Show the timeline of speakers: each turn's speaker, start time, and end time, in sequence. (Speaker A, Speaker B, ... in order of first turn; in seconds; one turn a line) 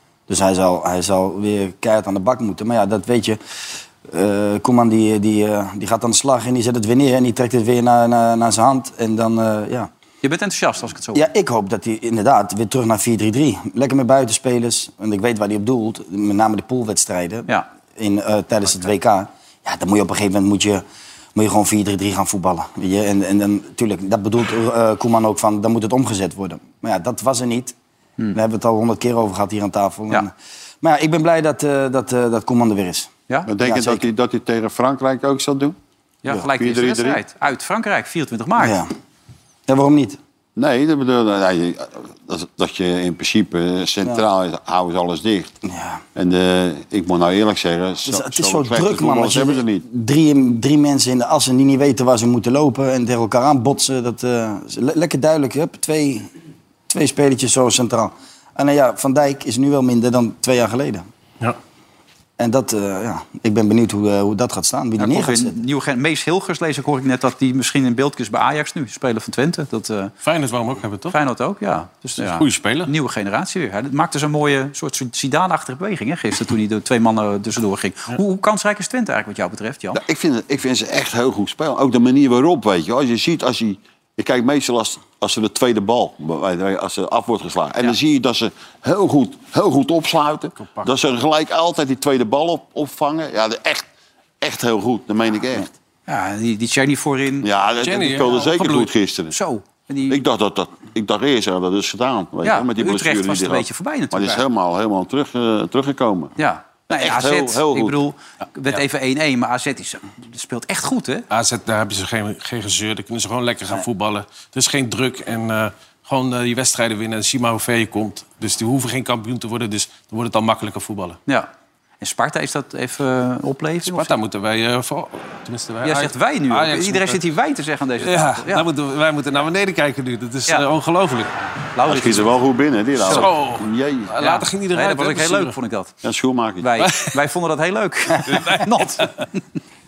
Speaker A: 0.3-3.4
Speaker A: 4.0-9.9
Speaker B: 10.2-11.3
Speaker A: 11.1-20.8
Speaker A: 21.3-27.7
Speaker A: 28.3-34.0
Speaker C: 33.5-35.8
Speaker B: 36.2-38.8
Speaker C: 36.3-37.2
Speaker A: 38.6-38.9
Speaker A: 39.7-40.2
Speaker C: 40.5-45.5
Speaker A: 45.6-46.0
Speaker C: 46.1-49.8
Speaker A: 48.0-56.3
Speaker A: 56.9-61.0
Speaker A: 62.4-65.6
Speaker B: 65.0-70.1
Speaker D: 70.2-71.2
Speaker B: 71.1-80.0
Speaker D: 72.2-72.9
Speaker C: 79.9-93.9
Speaker D: 90.6-90.9
Speaker C: 94.4-95.7
Speaker B: 96.1-97.5
Speaker C: 97.4-99.3
Speaker D: 97.8-98.8
Speaker B: 98.6-100.2
Speaker C: 100.1-106.3
Speaker B: 102.4-104.4
Speaker B: 106.4-111.2
Speaker C: 106.9-108.0
Speaker D: 111.3-121.2
Speaker B: 122.0-124.2
Speaker D: 123.9-127.2
Speaker B: 125.8-128.7
Speaker D: 128.0-131.3
Speaker B: 131.7-132.3
Speaker C: 131.9-134.1
Speaker D: 133.0-135.5
Speaker B: 134.2-135.9
Speaker C: 136.0-136.7
Speaker B: 136.6-139.3
Speaker D: 138.3-138.7